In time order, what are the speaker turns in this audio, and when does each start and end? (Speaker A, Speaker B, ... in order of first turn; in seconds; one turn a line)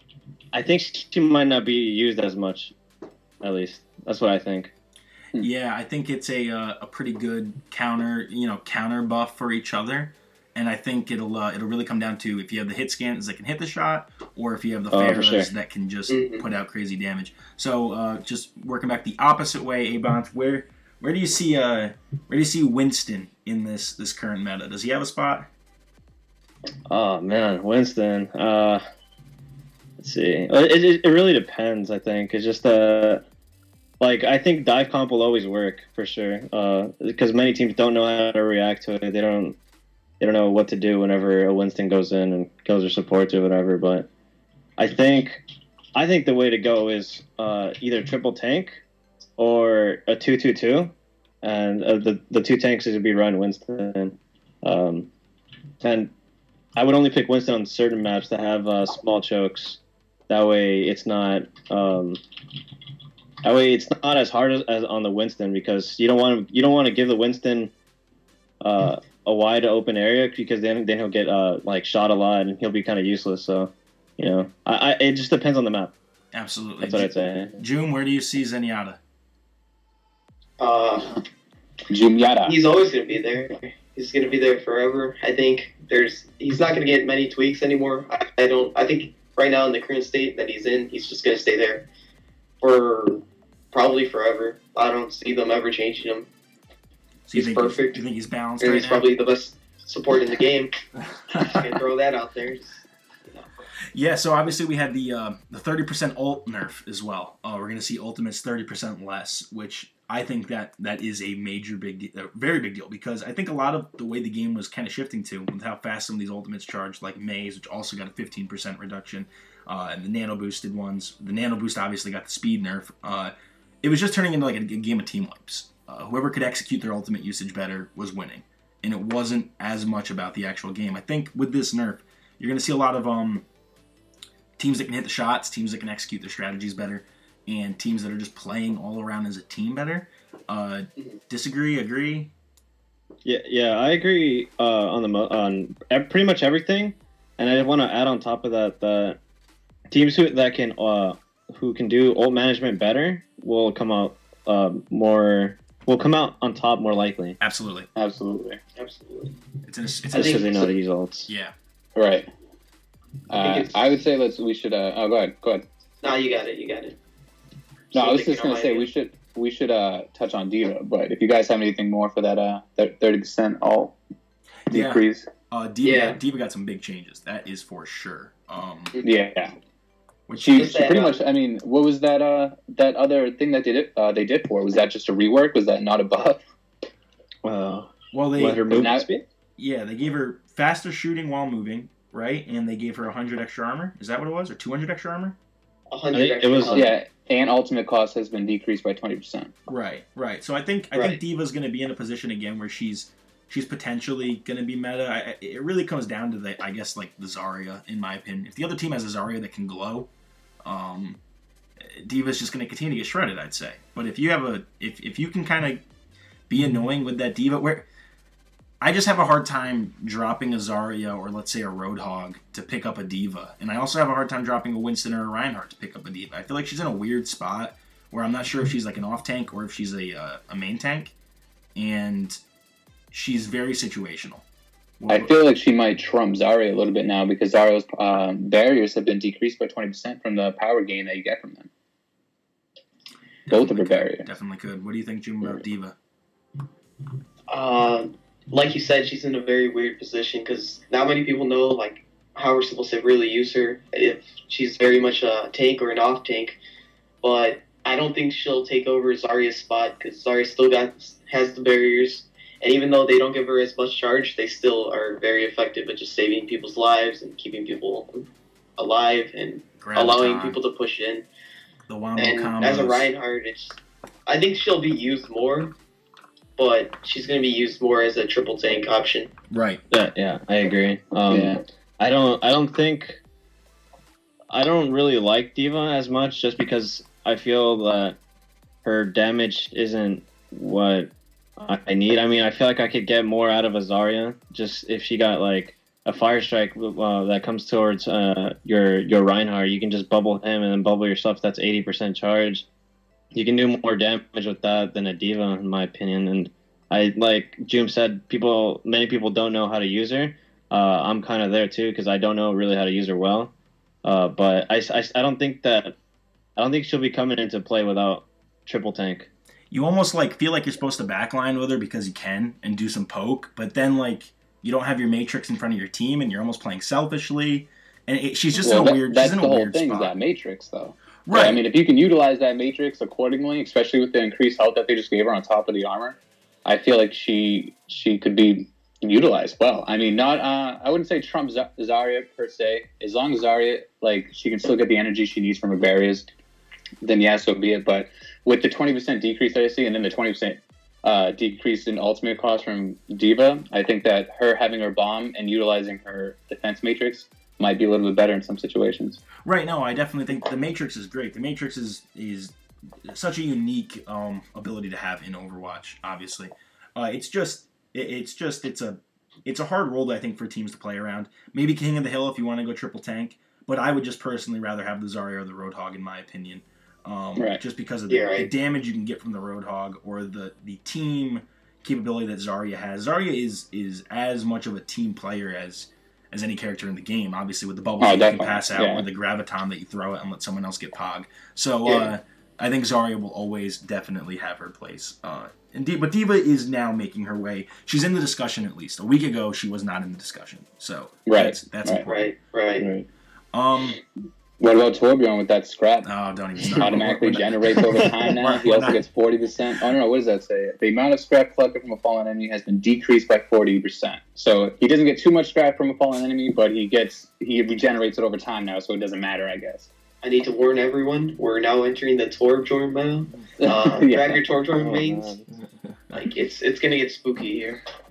Speaker A: 0.5-2.7
Speaker A: 3.4-4.7
Speaker B: 5.4-25.5
Speaker A: 14.9-15.5
Speaker C: 16.1-16.4
Speaker A: 26.9-28.8
Speaker A: 30.0-33.2
Speaker A: 34.0-39.5
Speaker A: 40.2-44.1
Speaker A: 44.8-45.4
Speaker A: 45.9-48.8
Speaker A: 49.4-55.1
Speaker A: 55.8-56.1
Speaker A: 56.8-62.2
Speaker A: 63.4-67.7
Speaker A: 68.6-75.9
Speaker B: 76.3-79.0
Speaker A: 76.8-77.6
Speaker C: 80.6-81.2
Speaker D: 81.9-82.6
Speaker C: 82.5-91.9
Speaker C: 92.6-96.3
Speaker B: 97.3-99.1
Speaker C: 97.3-98.0
Speaker C: 98.6-103.5
Speaker B: 103.9-133.4
Speaker B: 134.6-142.3
Speaker A: 143.2-149.2
Speaker A: 149.9-157.4
Speaker B: 157.4-157.9
Speaker D: 157.9-158.6
Speaker C: 158.8-159.4
Speaker B: 159.6-160.6
Speaker C: 160.1-160.6
Speaker A: 160.1-161.3
Speaker B: 161.3-161.5
Speaker D: 161.9-162.3
Speaker D: 163.3-165.6
Speaker C: 163.3-164.0
Speaker C: 166.0-167.0
Speaker C: 167.9-168.9
Speaker D: 167.9-173.9
Speaker D: 174.7-175.3
Speaker B: 174.7-178.9
Speaker C: 175.8-176.2
Speaker D: 179.0-179.5
Speaker B: 180.3-180.9
Speaker D: 180.3-186.4
Speaker C: 180.4-181.2
Speaker A: 187.4-189.2
Speaker B: 188.1-188.9
Speaker D: 188.8-189.1
Speaker B: 189.6-195.3
Speaker C: 195.9-196.9
Speaker A: 196.1-196.9
Speaker D: 196.7-199.5
Speaker B: 199.7-210.1
Speaker C: 200.9-201.2
Speaker B: 210.6-211.2
Speaker B: 211.8-215.8
Speaker B: 216.5-217.9
Speaker B: 218.8-231.1
Speaker B: 231.7-232.4
Speaker B: 233.1-234.4
Speaker B: 235.0-235.3
Speaker D: 235.1-241.7
Speaker B: 243.5-245.9
Speaker D: 243.5-244.3
Speaker C: 247.5-256.6
Speaker C: 257.2-271.3
Speaker B: 269.8-270.6
Speaker B: 271.9-273.1
Speaker C: 272.2-275.8
Speaker C: 276.6-279.3
Speaker B: 279.5-279.8
Speaker A: 279.9-283.2
Speaker D: 281.3-281.6
Speaker A: 284.5-288.2
Speaker A: 288.8-302.6
Speaker A: 303.3-313.5
Speaker A: 314.0-315.9
Speaker A: 316.6-319.3
Speaker B: 319.7-330.1
Speaker D: 328.6-346.3
Speaker B: 331.3-331.6
Speaker D: 347.0-359.2
Speaker B: 359.4-402.2
Speaker C: 378.1-378.5
Speaker D: 388.0-389.0
Speaker C: 391.8-392.1
Speaker D: 401.2-402.0
Speaker C: 402.0-402.9
Speaker A: 402.8-403.1
Speaker B: 403.5-404.0
Speaker D: 404.6-406.1
Speaker B: 406.0-409.0
Speaker D: 406.8-419.9
Speaker C: 420.2-425.3
Speaker D: 423.6-424.4
Speaker A: 424.7-425.5
Speaker B: 425.9-426.3
Speaker C: 426.1-427.8